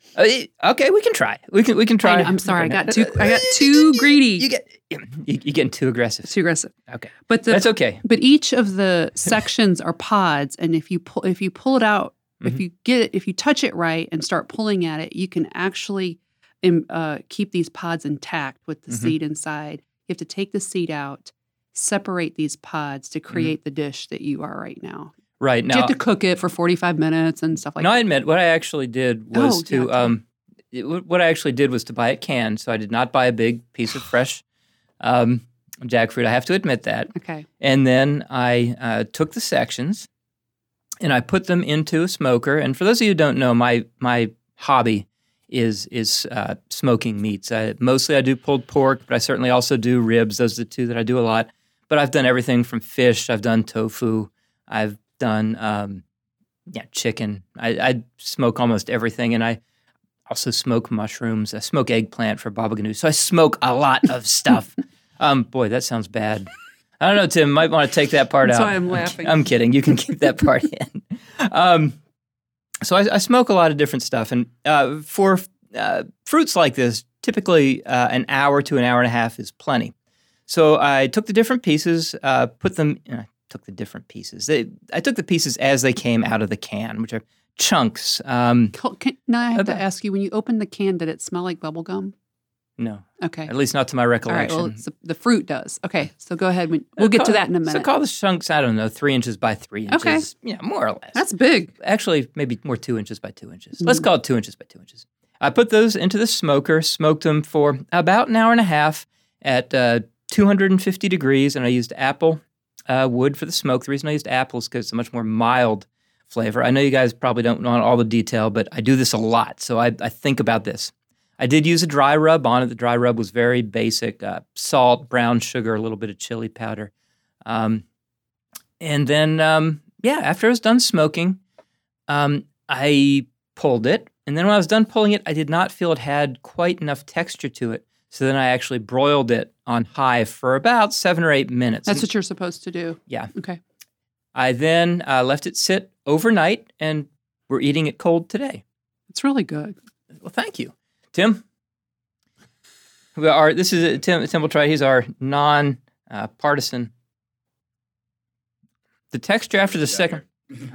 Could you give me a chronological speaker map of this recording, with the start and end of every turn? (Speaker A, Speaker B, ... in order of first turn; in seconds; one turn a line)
Speaker A: 0.1-6.3
Speaker B: 2.0-4.5
Speaker B: 6.2-6.7
Speaker A: 6.9-8.0
Speaker B: 7.3-25.1
Speaker A: 25.4-25.9
Speaker B: 25.7-28.0
Speaker A: 27.8-34.4
Speaker B: 29.3-30.1
Speaker A: 35.0-40.1
Speaker B: 37.1-37.5
Speaker A: 41.0-56.0
Speaker A: 56.7-59.6
Speaker A: 60.3-66.5
Speaker A: 67.0-72.0
Speaker B: 68.4-69.5
Speaker A: 72.8-79.9
Speaker A: 80.5-88.8
Speaker B: 88.7-92.1
Speaker A: 89.5-89.8
Speaker A: 92.8-94.8
Speaker B: 93.2-93.5
Speaker B: 94.3-97.9
Speaker A: 97.0-101.2
Speaker B: 99.9-100.3
Speaker B: 101.1-101.7
Speaker A: 101.8-126.9
Speaker A: 127.4-127.8
Speaker A: 128.8-131.4
Speaker A: 132.1-142.1
Speaker B: 141.9-143.6
Speaker A: 144.3-148.6
Speaker B: 149.1-149.8
Speaker A: 150.2-151.4
Speaker A: 153.2-156.9
Speaker A: 159.1-160.3